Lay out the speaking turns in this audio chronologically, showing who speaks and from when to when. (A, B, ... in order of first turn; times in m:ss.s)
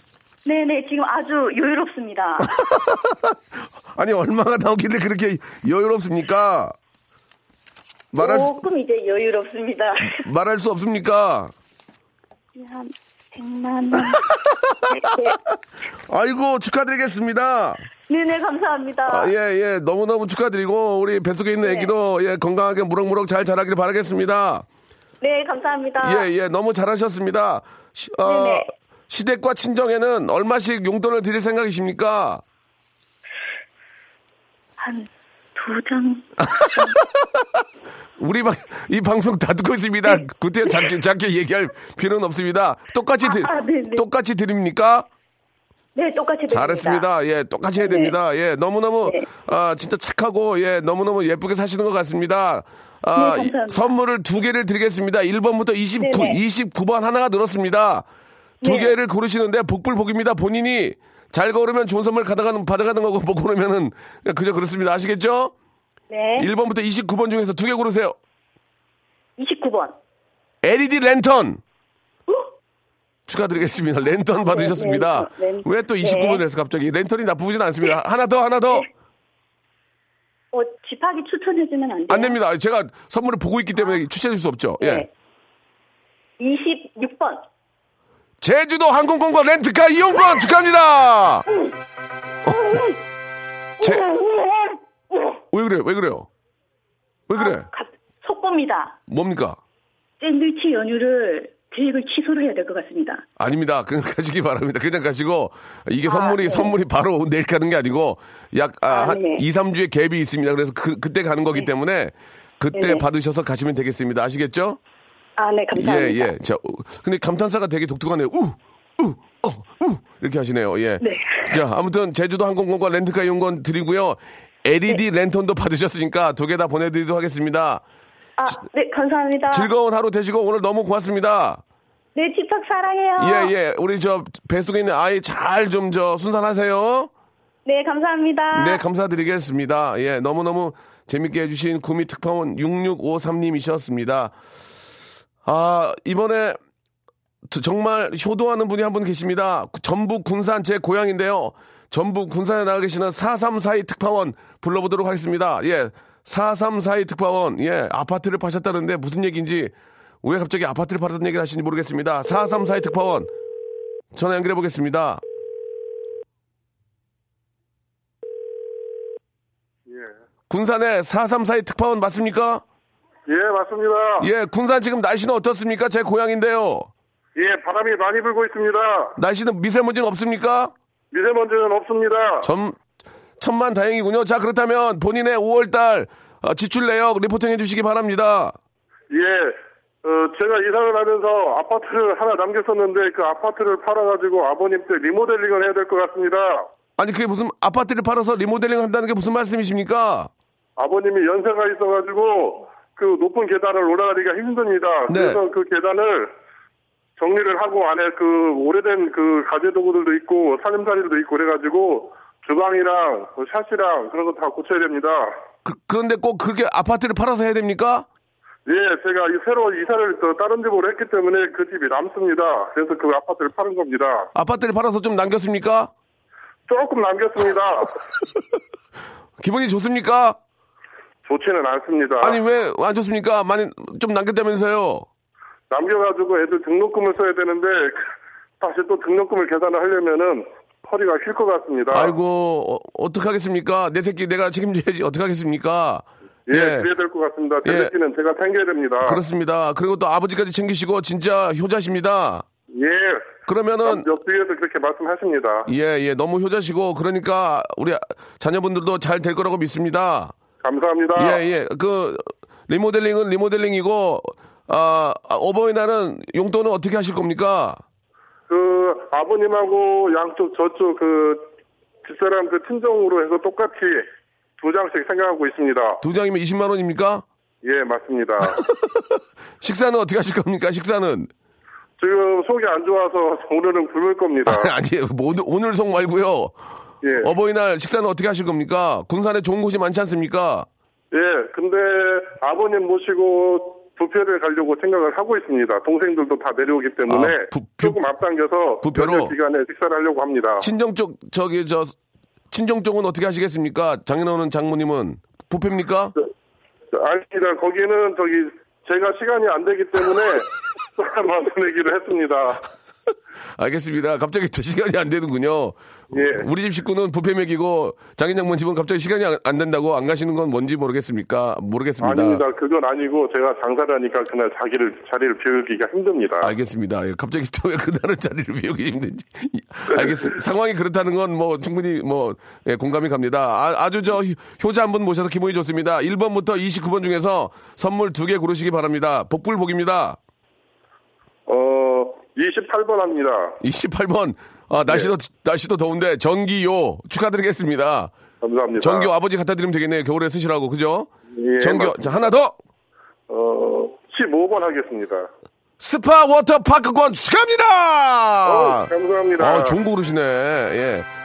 0:00.4-0:02.5 A
0:02.4-0:03.3 B
0:03.9-0:06.8 B
0:08.1-0:08.6 B
0:08.2-0:10.2 A
0:10.0-0:11.5 B
0:12.6-0:14.2 A
0:14.7-0:15.1 B
0:14.9-0:15.4 A
0:16.1-0:17.8 B
0:18.1-0:19.3 A
0:19.1-0:24.6 B
0:21.6-0:21.9 A
0:25.2-0:26.3 A
0:26.0-0:32.4 B
0:28.2-0:28.7 A
0:34.8-0:36.9 A
0:36.4-0:37.2 B
0:38.2-0:45.1 B
0:43.2-0:44.0 A
0:45.9-0:47.0 A
0:46.5-0:58.0 B
0:47.8-0:48.1 A
0:49.0-0:49.3 A
0:53.1-0:53.9 A
0:56.0-0:56.4 A
0:58.6-0:58.9 A
0:58.6-1:05.5 B
1:06.1-1:06.5 A
1:06.4-1:08.1 B
1:09.4-1:10.0 A
1:10.6-1:11.6 B
1:13.3-1:18.9 B
1:14.4-1:16.4 A
1:20.5-1:22.4 A
1:22.1-1:25.0 B
1:24.8-1:25.1 A
1:26.4-1:27.4 A
1:28.4-1:31.4 B
1:32.5-1:33.0 A
1:33.8-1:34.7 A
1:33.8-1:34.1 B
1:35.5-1:36.3 B
1:37.3-1:37.7 B
1:37.3-1:39.0 A
1:39.1-1:39.6 B
1:40.2-1:43.2 A
1:43.4-1:54.8 B
1:46.0-1:46.7 A
1:48.9-1:49.4 A
1:52.7-1:53.0 A
1:55.4-1:56.3 A
1:55.7-2:07.8 B
2:01.0-2:01.6 A
2:08.4-2:09.7 A
2:09.5-2:11.6 B
2:12.1-2:13.5 A
2:13.2-2:17.1 B
2:17.6-2:18.8 A
2:18.5-2:24.3 B
2:25.4-2:26.6 B
2:27.5-2:43.3 B
2:44.1-2:45.2 B
2:50.5-2:52.6 B
2:53.3-2:54.3 C
2:54.2-2:56.9 B
2:57.4-2:59.1 C
2:59.2-3:00.7 B
3:01.1-3:02.5 C
3:02.4-3:02.8 B
3:03.4-3:08.6 B
3:09.1-3:16.6 C
3:17.0-3:20.3 B
3:20.8-3:26.3 C
3:25.1-3:25.4 B
3:27.2-3:35.3 C
3:35.6-3:38.0 B
3:38.6-3:44.3 C
3:44.3-3:45.9 B
3:46.7-3:48.0 C
3:49.4-3:50.4 B
3:51.2-3:52.4 C
3:52.2-3:55.1 B
3:55.7-3:58.1 C
3:58.6-4:02.1 C
4:01.9-4:06.9 B
4:06.5-4:09.2 C
4:07.6-4:07.9 B
4:09.0-4:12.4 B
4:12.7-4:15.7 C
4:13.4-4:14.1 B
4:15.6-4:20.3 B
4:20.6-4:21.4 C
4:21.2-4:27.8 B
4:28.5-4:31.5 C
4:32.0-4:34.0 C
4:34.6-4:36.0 C
4:36.0-4:37.2 B
4:37.6-4:38.6 C
4:38.4-4:41.3 B
4:42.0-4:44.7 C
4:44.4-4:46.5 B
4:47.0-4:47.3 C
4:47.2-4:50.7 B
4:51.1-5:00.6 C
4:57.1-4:58.0 B
4:58.8-4:59.3 B
5:00.6-5:02.0 B
5:02.5-5:06.1 B
5:06.9-5:12.6 C
5:13.6-5:22.4 B
5:16.1-5:16.5 C
5:22.0-5:26.5 C
5:26.4-5:40.2 B
5:41.5-5:43.6 C
5:43.6-5:48.1 B
5:48.4-5:49.1 C
5:48.8-5:52.5 B
5:51.3-5:52.2 C
5:53.3-5:55.3 C
5:55.8-6:01.1 B
5:58.4-5:59.8 C